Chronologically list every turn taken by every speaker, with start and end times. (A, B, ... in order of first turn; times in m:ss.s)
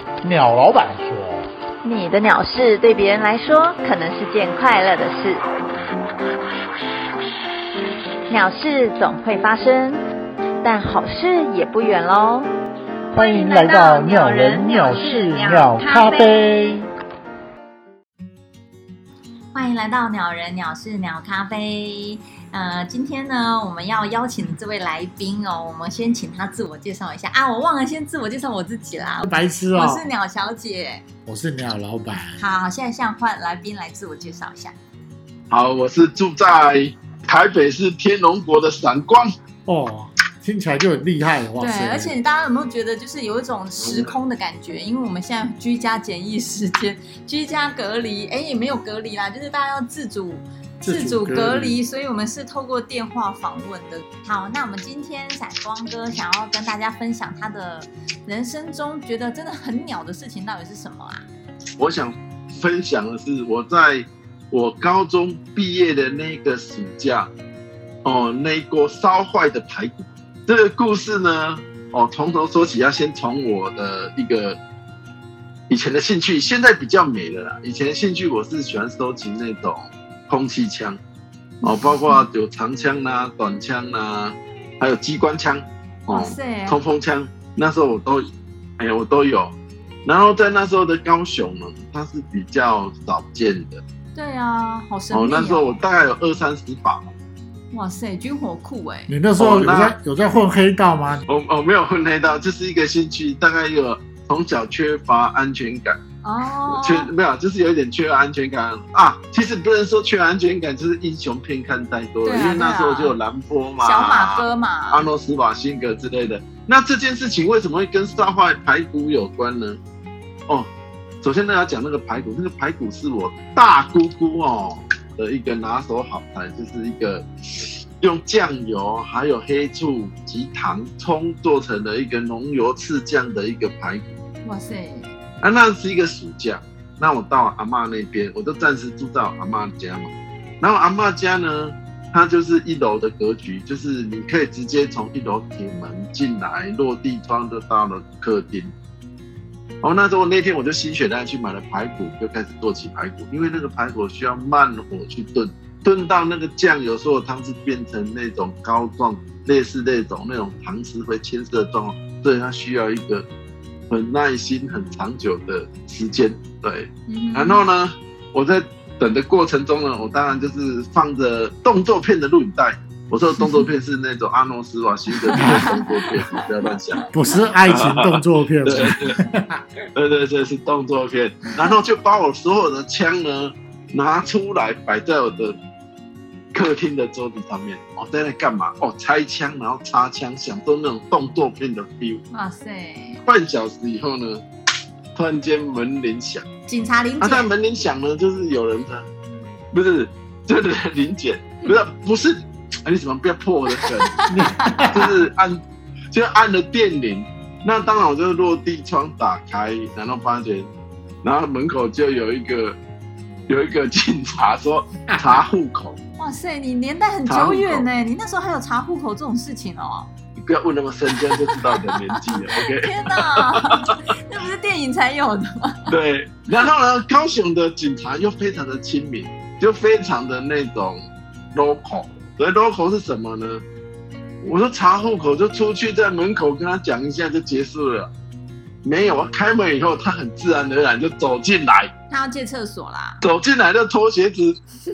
0:00.2-0:01.5 A
0:01.8-0:05.4 B
0:08.3-0:10.0 B
0:10.6-0:12.5 B
0:13.1-0:16.8 B
0:13.1-0:16.9 A
0:19.5-0:31.1 B
0:29.3-0:30.0 C
0:31.3-0:32.4 C
0:32.4-0:34.8 B
0:35.5-0:39.3 D
0:39.7-0:42.2 C
0:41.6-1:01.2 B
0:43.8-0:44.1 D
0:50.8-0:51.8 C
1:01.8-1:07.3 D
1:08.0-1:14.6 D
1:15.7-1:21.0 D
1:21.6-1:29.5 D
1:21.6-1:22.2 B
1:26.1-1:26.8 B
1:30.0-1:33.8 D
1:34.1-1:35.7 B
1:35.1-1:37.1 D
1:37.7-1:39.1 B
1:39.1-1:41.2 C
1:39.4-1:40.0 D
1:41.3-1:46.0 D
1:46.2-1:47.1 B
1:46.7-1:59.8 D
1:52.2-1:53.2 B
1:53.8-1:55.1 B
2:01.2-2:14.1 D
2:14.4-2:15.1 B
2:15.4-2:28.7 D
2:29.8-2:43.3 D
2:43.9-2:57.0 D
2:47.1-2:47.6 B
2:55.2-2:56.2 B
2:55.4-2:55.6 C
2:57.1-2:59.6 C
2:57.6-2:59.1 D
3:00.0-3:05.6 D
3:06.5-3:12.2 D
3:12.3-3:13.2 B
3:13.2-3:14.4 D
3:15.2-3:16.4 D
3:16.7-3:17.5 B
3:17.2-3:19.1 D
3:19.7-3:24.1 D
3:23.8-3:24.5 B
3:24.3-3:25.2 C
3:24.8-3:30.7 D
3:31.2-3:32.8 D
3:33.5-3:36.0 D
3:35.1-3:35.4 C
3:36.2-3:40.1 B
3:37.3-3:37.9 D
3:40.4-3:43.9 D
3:41.5-3:41.9 B
3:42.6-3:45.9 B
3:45.9-3:53.6 D
3:54.4-3:58.1 D
3:58.8-4:01.9 D
4:02.1-4:03.2 B
4:03.2-4:04.6 D